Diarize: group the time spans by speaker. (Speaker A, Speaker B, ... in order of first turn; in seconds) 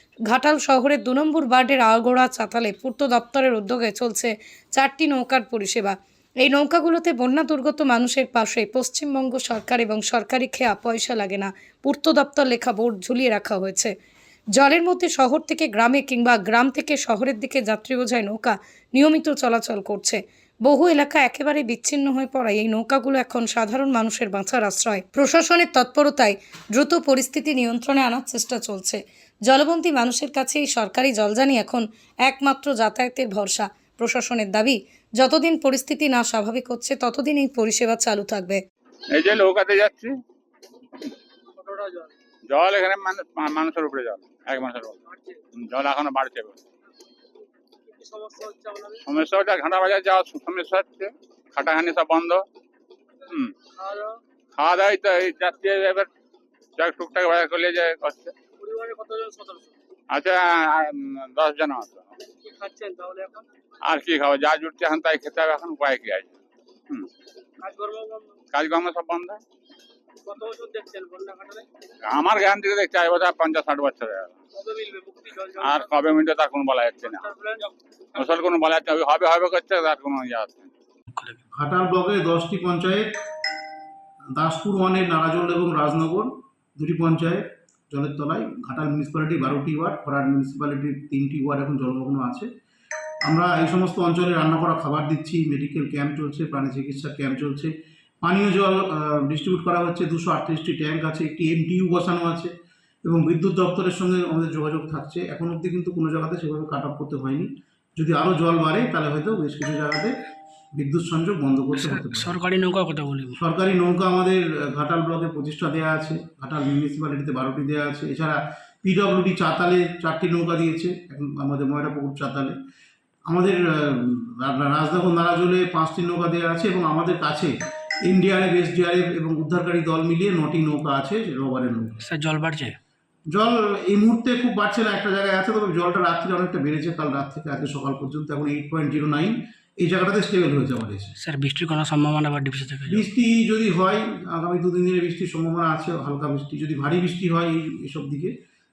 Speaker A: 0.3-13.9, 14.6-38.6
Speaker B: 39.1-40.1, 42.5-45.0, 45.5-46.6, 49.0-52.4, 53.3-53.5, 54.5-56.1, 56.8-58.3, 60.1-62.1, 63.8-66.3, 68.5-69.4, 72.0-74.3, 75.6-77.3, 78.1-80.7
Speaker C: 41.5-42.1, 45.1-45.4, 47.9-49.0, 53.8-54.2, 58.6-59.7, 62.4-63.5, 67.6-68.5, 70.2-71.7, 74.5-75.8, 77.1-77.7
Speaker D: 81.1-81.4, 111.7-113.4, 132.0-132.8, 141.2-143.1
Speaker E: 81.5-83.1, 84.3-92.5, 93.2-97.7, 98.2-102.5, 103.0-110.1, 110.8-112.4, 113.4-122.5, 123.3-127.5, 128.1-132.0, 133.3-141.1, 142.9-148.3